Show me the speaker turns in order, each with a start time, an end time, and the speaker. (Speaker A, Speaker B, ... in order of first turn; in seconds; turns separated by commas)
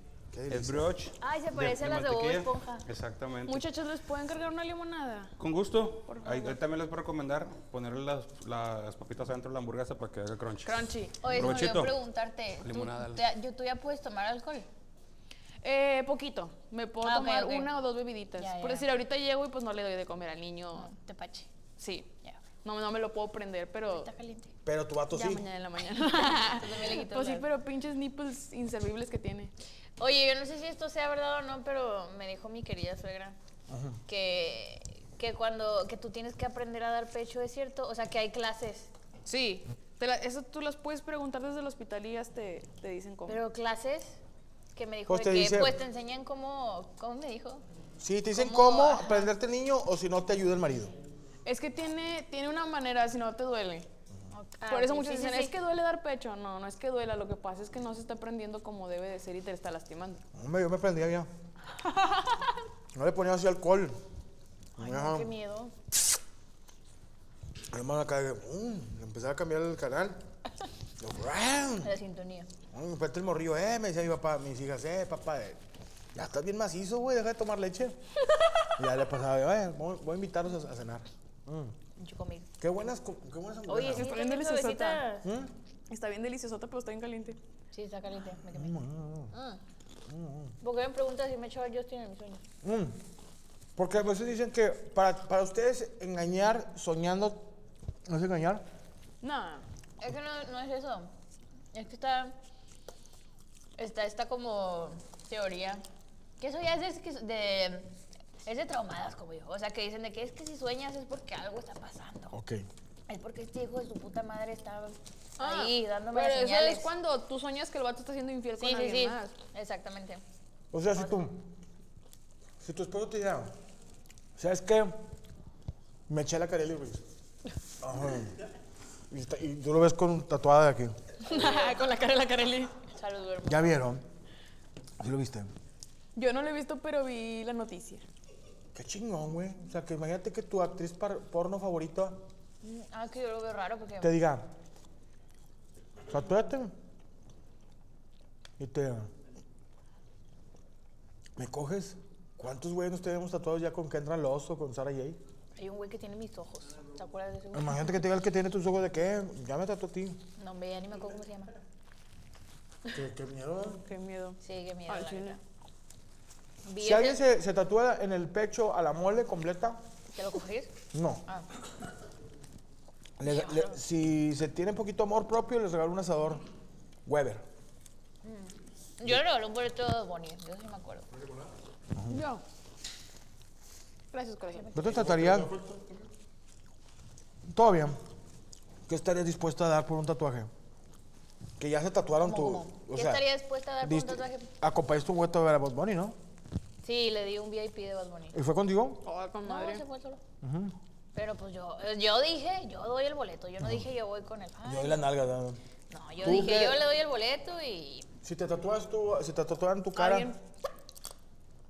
Speaker A: 0.3-0.9, Speaker B: 0.5-3.7, Speaker C: 1.2-2.9, Speaker D: 3.5-5.3, Speaker B: 5.4-12.0, Speaker D: 6.1-6.6, Speaker D: 10.6-11.7, Speaker C: 11.2-14.7, Speaker B: 12.6-13.3, Speaker D: 15.6-20.9, Speaker C: 17.0-17.7, Speaker C: 18.4-18.9, Speaker C: 20.8-21.5, Speaker D: 21.8-22.1, Speaker D: 22.6-24.1, Speaker C: 23.9-24.5, Speaker A: 24.6-25.4, Speaker D: 25.1-29.5, Speaker C: 26.4-27.4, Speaker C: 30.0-33.4, Speaker A: 33.7-34.0, Speaker C: 34.1-38.9, Speaker D: 39.2-43.4, Speaker C: 43.3-44.2, Speaker C: 44.7-47.6, Speaker A: 45.1-45.8, Speaker A: 48.0-50.9, Speaker C: 48.3-49.3, Speaker D: 51.4-53.9, Speaker C: 54.3-55.5, Speaker D: 54.7-60.2, Speaker A: 60.3-61.3, Speaker D: 61.8-62.5, Speaker A: 62.9-64.0, Speaker A: 64.8-65.3, Speaker D: 64.8-65.7, Speaker A: 67.7-70.2, Speaker A: 71.0-71.9, Speaker C: 71.8-72.5, Speaker A: 72.7-75.6, Speaker A: 76.1-78.0, Speaker A: 78.8-81.7, Speaker C: 82.0-82.5, Speaker A: 82.6-84.1, Speaker C: 83.7-85.3, Speaker D: 83.8-85.1, Speaker A: 85.2-85.5, Speaker D: 85.9-87.4, Speaker C: 87.7-88.8, Speaker A: 88.5-89.3, Speaker C: 89.3-89.6, Speaker A: 90.1-90.5, Speaker C: 90.6-92.4, Speaker A: 92.6-93.0, Speaker A: 93.8-97.5, Speaker A: 98.0-98.6, Speaker D: 99.2-99.7, Speaker C: 100.0-101.1, Speaker C: 101.7-102.3, Speaker C: 103.8-105.8, Speaker C: 106.4-107.9, Speaker C: 108.4-112.3, Speaker A: 112.3-112.7, Speaker C: 113.1-116.9, Speaker D: 115.4-119.3, Speaker C: 118.6-120.2, Speaker A: 120.7-121.5, Speaker C: 121.0-121.2, Speaker A: 122.6-123.5, Speaker A: 124.4-125.0, Speaker A: 126.1-127.0, Speaker A: 127.8-128.4, Speaker A: 129.1-130.9, Speaker D: 131.2-132.7, Speaker C: 132.9-133.8, Speaker A: 133.4-134.0, Speaker A: 135.0-135.5, Speaker D: 136.2-138.0, Speaker A: 138.7-142.2, Speaker C: 142.6-144.2, Speaker A: 144.0-144.5, Speaker A: 146.1-146.7, Speaker A: 148.6-149.1, Speaker A: 151.4-155.2, Speaker C: 155.6-157.9, Speaker A: 157.5-160.3, Speaker C: 160.4-161.6, Speaker A: 162.9-163.8, Speaker D: 163.8-165.4, Speaker C: 164.4-165.4, Speaker C: 166.7-167.2, Speaker A: 166.8-169.8, Speaker C: 170.1-170.7, Speaker A: 170.9-171.2, Speaker A: 173.2-176.4, Speaker C: 173.2-173.8, Speaker A: 177.1-177.4, Speaker C: 178.2-181.1, Speaker A: 181.9-182.2, Speaker D: 182.1-182.4, Speaker D: 184.1-184.7, Speaker C: 184.5-185.1, Speaker A: 184.7-185.8, Speaker A: 187.5-188.0, Speaker A: 188.9-190.5, Speaker A: 191.6-193.3, Speaker C: 192.2-194.5, Speaker A: 193.8-196.2, Speaker C: 196.8-198.3, Speaker A: 198.3-199.1, Speaker D: 199.0-199.8, Speaker C: 199.4-200.2, Speaker A: 200.4-200.8, Speaker C: 201.1-205.1, Speaker A: 203.6-203.8, Speaker A: 204.6-205.6, Speaker C: 205.9-208.1, Speaker A: 206.2-206.9, Speaker A: 208.2-210.3, Speaker D: 209.9-210.4